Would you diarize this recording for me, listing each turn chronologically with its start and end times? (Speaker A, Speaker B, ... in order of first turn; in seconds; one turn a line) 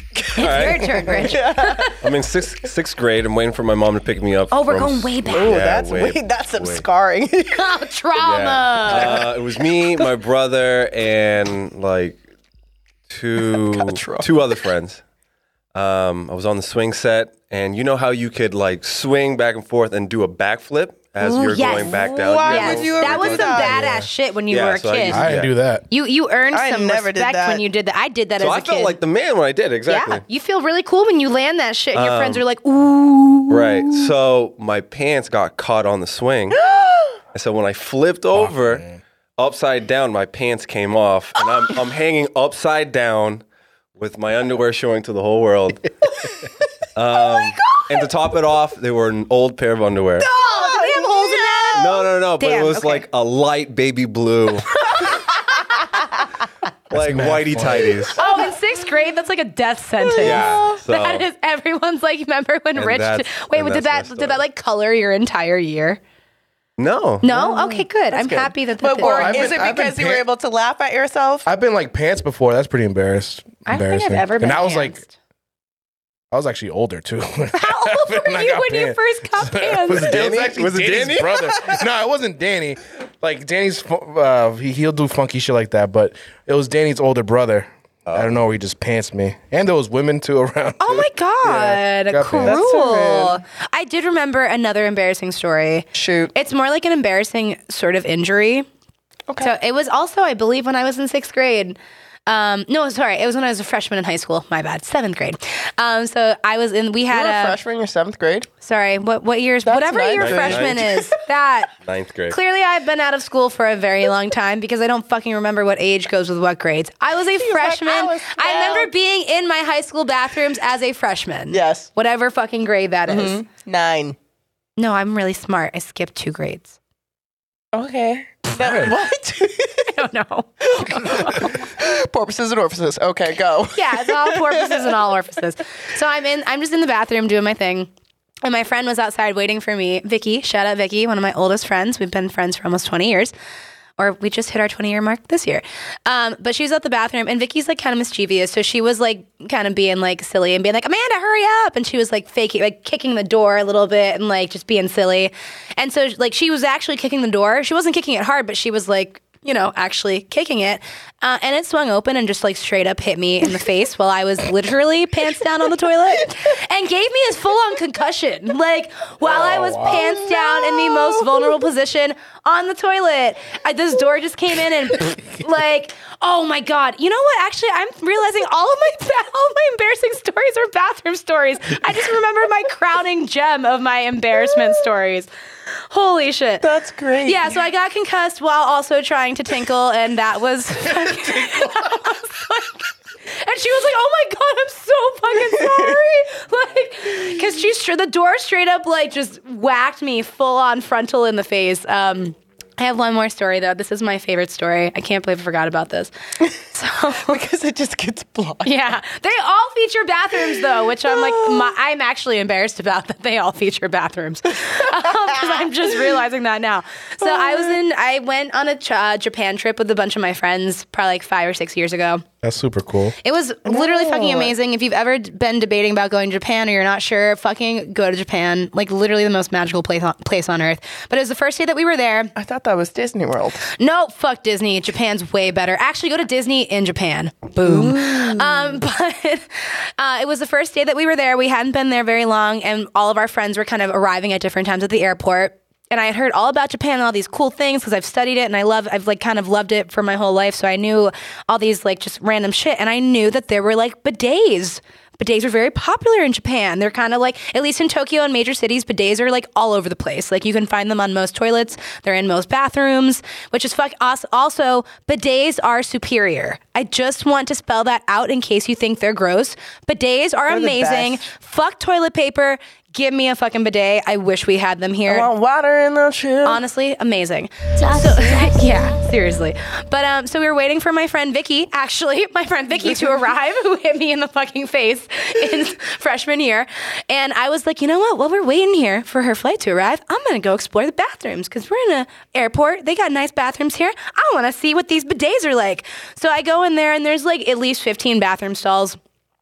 Speaker A: 0.3-1.9
Speaker B: 0.4-1.3
Speaker C: 0.8-1.9
Speaker B: 2.0-6.8
Speaker A: 4.5-5.5
Speaker C: 5.3-7.7
Speaker A: 7.5-9.3
Speaker B: 8.2-12.2
Speaker C: 8.9-9.3
Speaker B: 13.1-15.0
Speaker C: 13.4-14.3
Speaker B: 15.7-23.9
Speaker A: 21.2-25.3
Speaker C: 21.7-23.8
Speaker D: 23.7-24.1
Speaker B: 24.5-25.6
Speaker D: 25.1-25.9
Speaker A: 25.9-29.0
Speaker C: 26.5-27.6
Speaker B: 28.4-30.2
Speaker A: 29.9-33.8
Speaker B: 31.9-32.4
Speaker B: 33.5-36.6
Speaker C: 36.6-37.2
Speaker B: 37.3-45.9
Speaker D: 38.3-39.0
Speaker B: 47.0-50.3
Speaker C: 50.2-52.1
Speaker A: 50.5-53.1
Speaker B: 51.8-54.7
Speaker B: 56.9-58.2
Speaker D: 56.9-58.0
Speaker C: 58.1-58.8
Speaker A: 58.2-66.0
Speaker C: 60.0-60.8
Speaker B: 60.2-61.3
Speaker B: 62.8-64.4
Speaker B: 66.8-67.2
Speaker A: 67.2-69.5
Speaker C: 67.3-71.5
Speaker D: 69.0-70.2
Speaker D: 71.5-75.0
Speaker A: 73.7-75.1
Speaker D: 76.3-92.7
Speaker A: 77.5-80.2
Speaker B: 79.9-81.8
Speaker B: 88.1-88.4
Speaker A: 90.8-98.7
Speaker C: 92.4-93.4
Speaker C: 95.9-96.3
Speaker A: 99.4-107.6
Speaker C: 107.1-108.5
Speaker A: 108.6-111.7
Speaker C: 109.7-111.1
Speaker B: 110.2-110.9
Speaker B: 111.8-112.4
Speaker A: 112.3-123.4
Speaker C: 117.4-118.9
Speaker C: 121.5-121.9
Speaker C: 123.1-124.2
Speaker A: 124.8-126.7
Speaker C: 127.7-129.9
Speaker D: 128.6-128.9
Speaker A: 129.9-131.6
Speaker C: 130.6-134.9
Speaker A: 133.7-137.9
Speaker A: 138.4-143.3
Speaker A: 144.0-185.3
Speaker D: 169.2-170.1
Speaker C: 169.8-171.5
Speaker A: 185.9-186.7
Speaker C: 186.6-187.5
Speaker A: 187.2-192.9
Speaker A: 193.4-207.4
Speaker C: 195.6-195.9
Speaker C: 207.2-208.8
Speaker A: 208.6-222.2
Speaker C: 210.4-211.7
Speaker C: 215.0-216.1
Speaker C: 217.2-217.8
Speaker D: 222.4-223.2
Speaker A: 223.2-232.3
Speaker C: 223.7-224.5
Speaker C: 232.4-233.6
Speaker A: 233.6-275.3
Speaker C: 237.6-238.8
Speaker C: 270.5-271.3
Speaker C: 275.1-276.6
Speaker A: 276.4-299.0
Speaker C: 282.8-283.1